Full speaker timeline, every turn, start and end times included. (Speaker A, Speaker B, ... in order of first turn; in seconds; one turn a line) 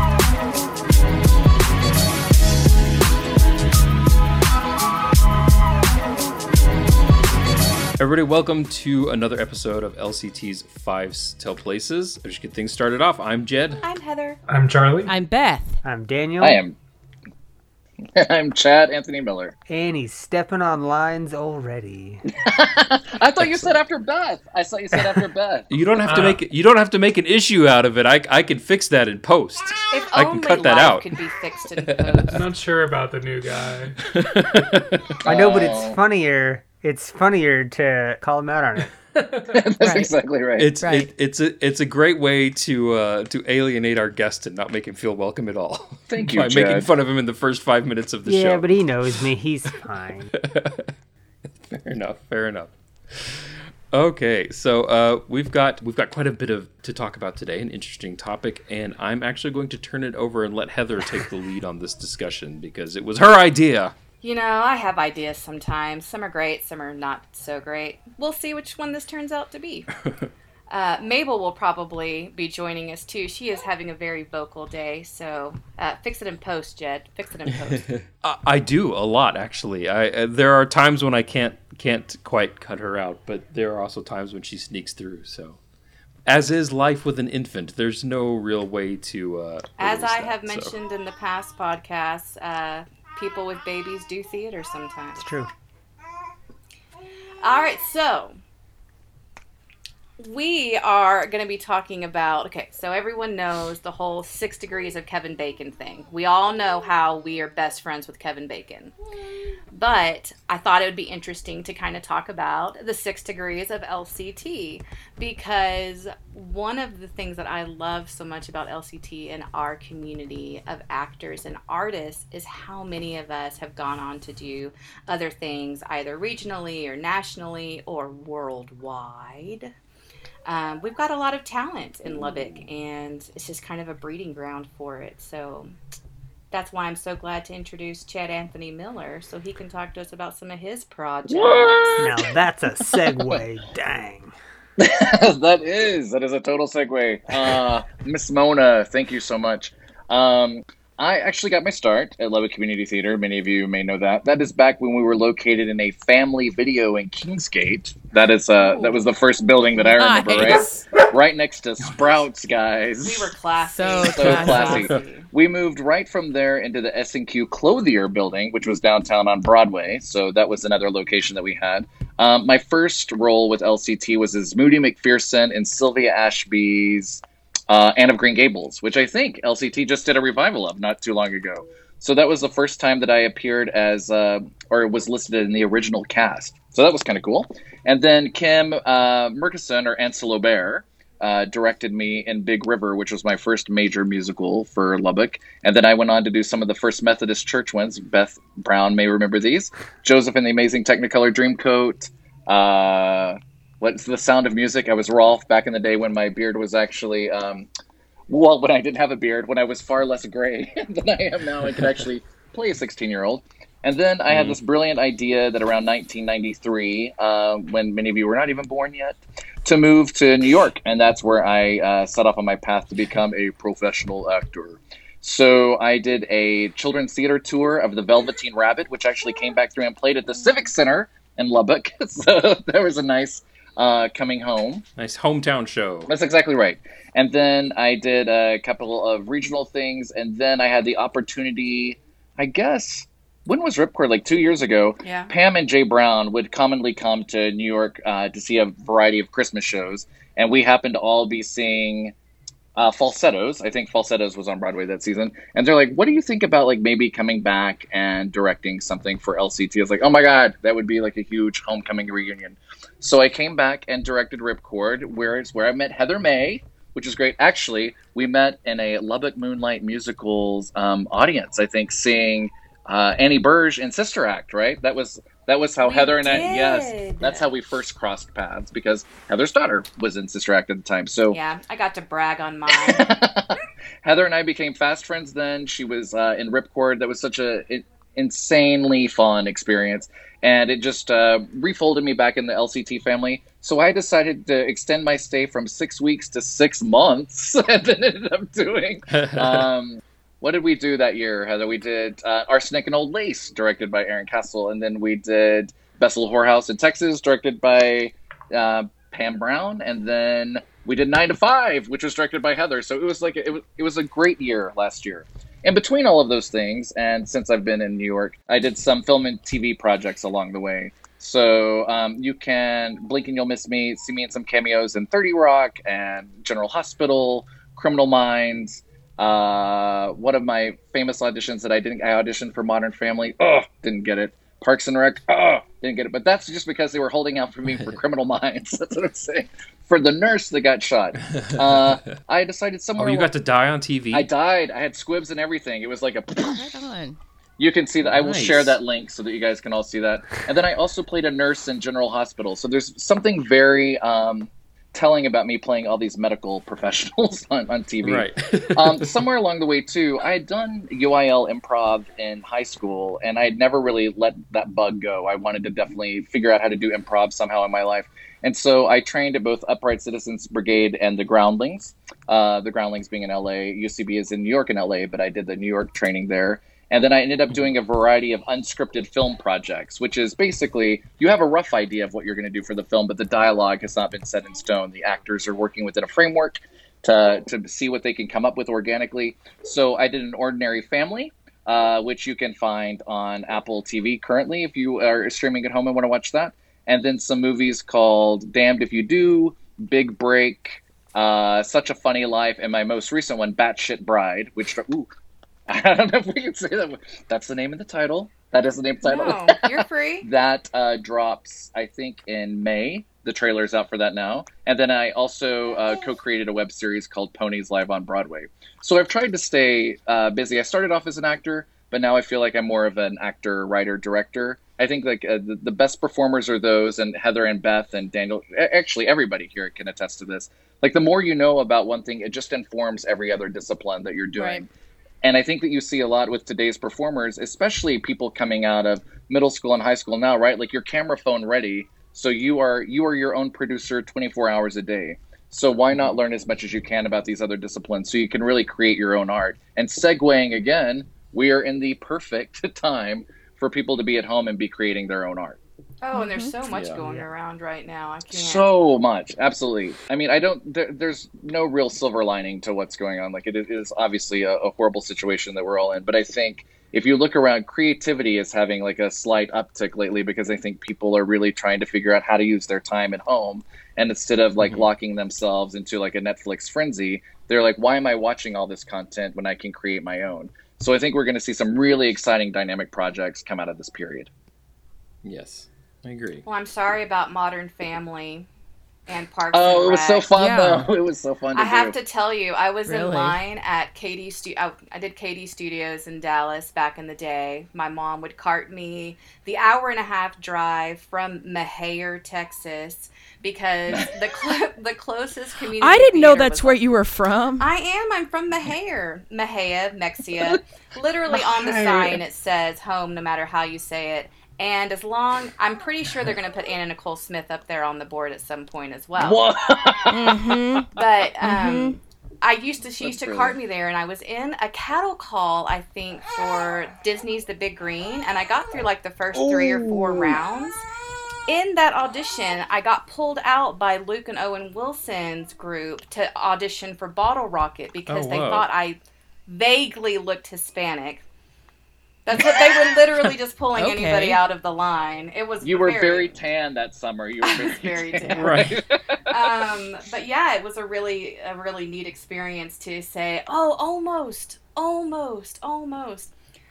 Speaker A: 8.0-13.8
Speaker B: 13.8-14.4
Speaker C: 14.5-15.1
Speaker D: 15.1-15.8
Speaker E: 15.8-16.6
Speaker F: 16.4-16.8
Speaker F: 18.1-19.5
Speaker E: 19.7-22.2
Speaker F: 22.3-25.8
Speaker A: 23.4-23.8
Speaker A: 25.7-31.2
Speaker C: 26.0-26.4
Speaker B: 29.9-32.4
Speaker A: 31.8-32.4
Speaker C: 32.3-34.6
Speaker A: 34.0-35.2
Speaker F: 35.2-36.0
Speaker E: 35.2-38.9
Speaker F: 39.5-40.8
Speaker D: 39.8-40.1
Speaker A: 40.6-48.7
Speaker D: 40.8-41.1
Speaker F: 46.1-46.9
Speaker E: 48.2-50.3
Speaker A: 50.3-50.9
Speaker A: 51.7-63.9
Speaker B: 64.2-69.9
Speaker B: 70.7-77.9
Speaker A: 77.8-85.6
Speaker A: 86.2-90.7
Speaker B: 89.8-95.3
Speaker E: 95.2-95.5
Speaker B: 97.4-98.4
Speaker B: 100.2-108.9
Speaker B: 109.7-129.7
Speaker B: 130.4-135.7
Speaker B: 136.5-142.3
Speaker F: 141.3-142.2
Speaker E: 142.0-144.3
Speaker F: 142.9-143.4
Speaker F: 144.8-163.3
Speaker B: 158.6-159.0
Speaker D: 159.8-160.8
Speaker A: 161.8-162.1
Speaker B: 163.0-165.3
Speaker D: 163.7-164.9
Speaker F: 164.0-207.7
Speaker A: 164.5-164.8
Speaker F: 208.3-234.8
Speaker A: 214.3-214.6
Speaker A: 235.0-236.1
Speaker F: 236.1-252.1
Speaker B: 245.0-245.3
Speaker F: 252.8-281.4
Speaker B: 275.8-277.4
Speaker B: 281.3-283.1
Speaker F: 282.7-343.3
Speaker A: 299.1-299.7
Speaker A: 341.3-342.2
Speaker A: 342.9-344.3
Speaker F: 344.1-346.7
Speaker D: 346.4-347.2
Speaker F: 347.6-405.1
Speaker A: 348.0-348.8
Speaker A: 358.0-359.1
Speaker F: 405.7-434.7
Speaker B: 409.0-410.2
Speaker D: 434.3-434.6
Speaker F: 435.2-455.6
Speaker B: 456.0-458.7
Speaker D: 456.1-456.5
Speaker A: 456.7-457.0
Speaker F: 458.3-484.3
Speaker A: 474.6-474.9
Speaker A: 485.2-486.4
Speaker B: 486.4-488.5
Speaker B: 489.1-490.3
Speaker F: 489.5-491.9
Speaker D: 490.3-490.9
Speaker B: 491.5-506.8
Speaker D: 492.9-493.4
Speaker D: 505.8-507.7
Speaker B: 507.6-519.4
Speaker F: 511.3-512.2
Speaker F: 519.2-520.8
Speaker D: 520.1-520.9
Speaker B: 520.9-530.8
Speaker D: 521.4-522.0
Speaker F: 523.0-523.5
Speaker F: 529.3-530.4
Speaker B: 531.5-541.2
Speaker A: 538.1-538.7
Speaker B: 542.2-546.4
Speaker D: 543.8-544.4
Speaker F: 545.6-549.4
Speaker B: 547.4-548.6
Speaker A: 548.3-548.8
Speaker B: 549.3-556.3